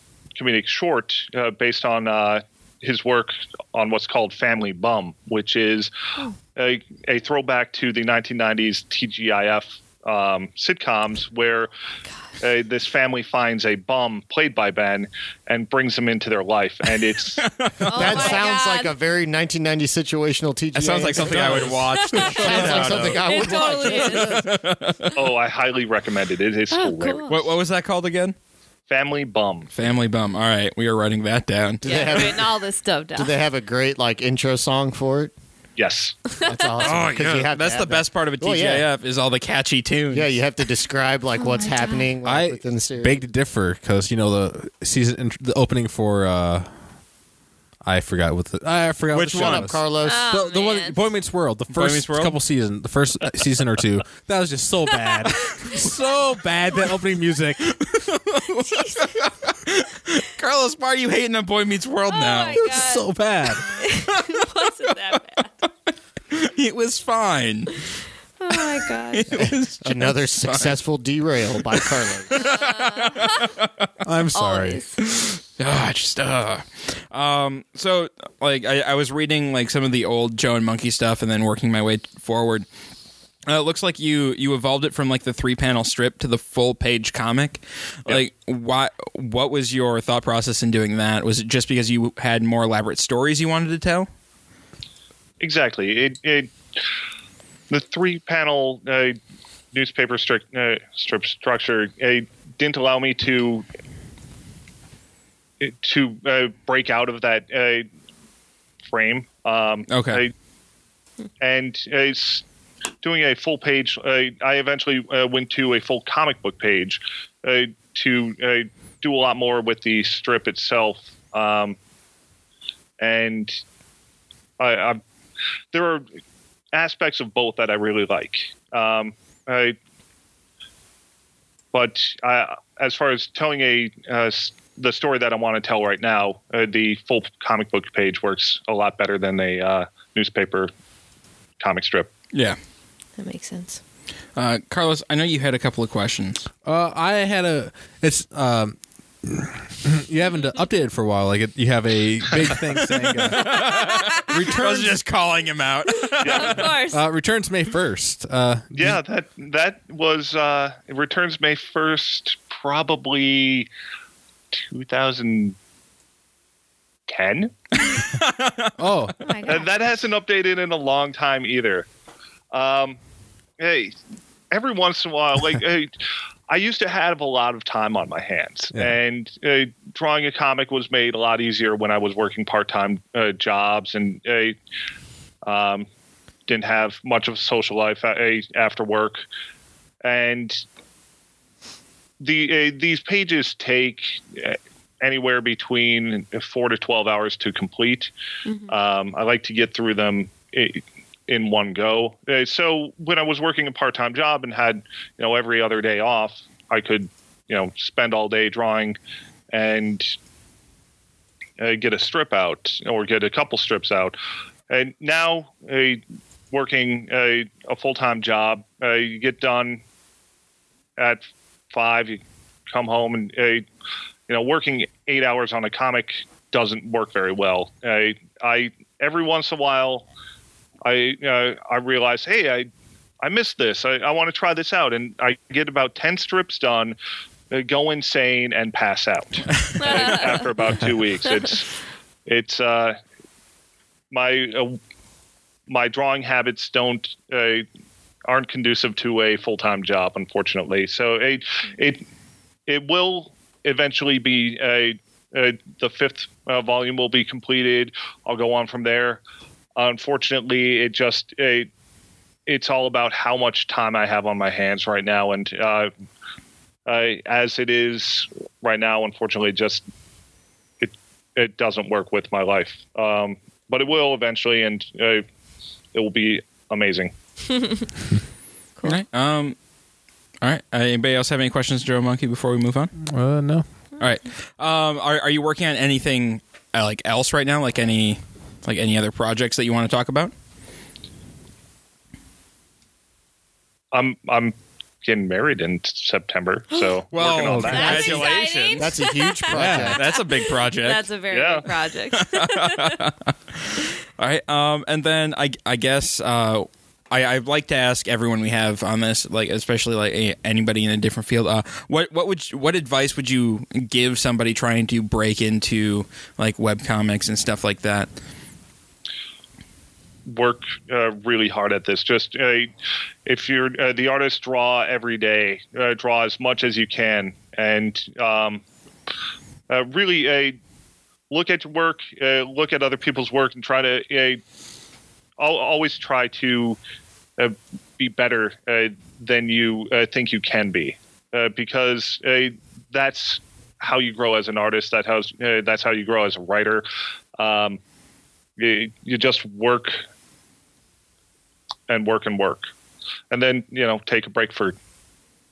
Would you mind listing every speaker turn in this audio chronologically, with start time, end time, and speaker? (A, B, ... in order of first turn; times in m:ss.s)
0:00.4-0:05.9 A
0:06.5-0:11.7 A
0:12.4-0:17.5 A
0:17.3-0:18.4 B
0:17.8-0:19.0 C
0:17.9-0:24.5 D
0:20.7-0:25.3 B
0:21.2-0:21.8 E
0:21.9-0:24.6 C
0:25.1-0:27.3 A
0:26.7-0:27.4 C
0:27.3-0:28.3 B
0:28.9-0:29.7 A
0:29.7-0:32.3 B
0:31.8-0:32.6 D
0:31.8-0:33.3 C
0:33.2-0:35.3 D
0:35.8-0:36.3 A
0:36.4-0:38.9 D
0:36.8-0:40.3 B
0:40.1-0:43.2 D
0:41.4-0:42.0 C
0:42.2-0:46.7 E
0:47.8-0:57.8 E
0:49.1-0:49.7 B
0:49.3-0:50.2 D
0:50.0-0:51.0 C
0:51.7-0:52.4 B
0:54.9-0:55.8 C
0:57.6-1:02.6 B
0:58.6-0:59.1 C
1:02.1-1:03.1 C
1:02.6-1:03.7 E
1:03.6-1:05.5 C
1:04.1-1:04.9 B
1:06.3-1:07.8 B
1:08.4-1:09.2 C
1:08.5-1:10.8 B
1:09.3-1:12.5 D
1:11.7-1:13.9 B
1:12.4-1:13.5 C
1:14.0-1:14.8 E
1:14.3-1:15.0 C
1:15.0-1:22.7 B
1:23.4-1:34.1 B
1:35.4-1:36.5 A
1:37.7-1:39.2 A
1:39.7-1:43.6 A
1:45.6-1:47.9 A
1:48.8-1:50.3 A
1:49.9-1:50.2 B
1:51.4-1:52.4 A
1:53.0-2:01.8 A
2:03.0-2:03.6 A
2:04.6-2:05.0 A
2:05.7-2:06.0 A
2:06.7-2:09.8 A
2:11.7-2:20.7 A
2:21.6-2:22.1 A
2:22.3-2:22.6 B
2:23.2-2:23.8 C
2:24.4-2:26.5 B
2:26.6-2:33.5 E
2:33.3-2:36.7 B
2:33.7-2:34.2 C
2:34.3-2:35.0 E
2:36.0-2:37.0 C
2:36.2-2:36.6 A
2:36.9-2:39.0 E
2:38.7-2:43.7 A
2:44.5-2:45.6 A
2:47.1-2:47.5 A
2:47.8-2:48.8 B
2:48.8-2:49.1 E
2:49.2-2:49.7 C
2:49.4-2:51.9 A
2:52.5-2:53.0 A
2:53.6-2:53.9 A
2:54.5-2:55.9 A
2:56.5-3:04.6 A
3:05.4-3:05.9 A
3:06.5-3:09.2 A
3:10.0-3:10.6 A
3:12.2-3:18.1 A
3:18.5-3:18.7 C
3:18.7-3:29.0 A
3:29.5-3:30.2 A
3:31.6-3:34.2 A
3:34.7-3:39.8 A
3:41.0-3:43.6 A
3:44.3-3:50.1 A
3:50.8-3:52.7 A
3:53.2-3:57.0 A
3:57.5-4:01.7 A
3:59.8-4:00.4 C
4:02.2-4:03.0 A
4:04.1-4:04.8 A
4:05.7-4:07.6 A
4:08.2-4:12.0 A
4:12.7-4:19.2 A
4:19.8-4:21.7 A
4:22.5-4:25.9 A
4:26.8-4:29.8 A
4:30.8-4:35.2 A
4:35.9-4:37.1 A
4:37.5-4:37.9 C
4:38.8-4:39.6 B
4:40.4-4:42.9 B
4:43.0-4:43.6 E
4:44.0-4:50.3 B
4:53.9-4:58.3 A
4:57.1-4:59.0 B
4:57.4-4:57.8 E
4:57.6-5:03.0 C
4:57.8-5:00.0 D
4:59.5-5:00.0 E
4:59.6-5:01.1 B
5:01.3-5:01.7 A
5:02.1-5:18.1 B
5:20.3-5:22.7 A
5:23.2-5:28.6 A
5:29.7-5:30.6 A
5:31.3-5:34.4 A
5:35.4-5:36.8 A
5:37.4-5:46.8 A
5:47.4-5:47.8 A
5:48.6-5:50.0 A
5:51.9-5:52.6 A
5:53.3-5:54.8 A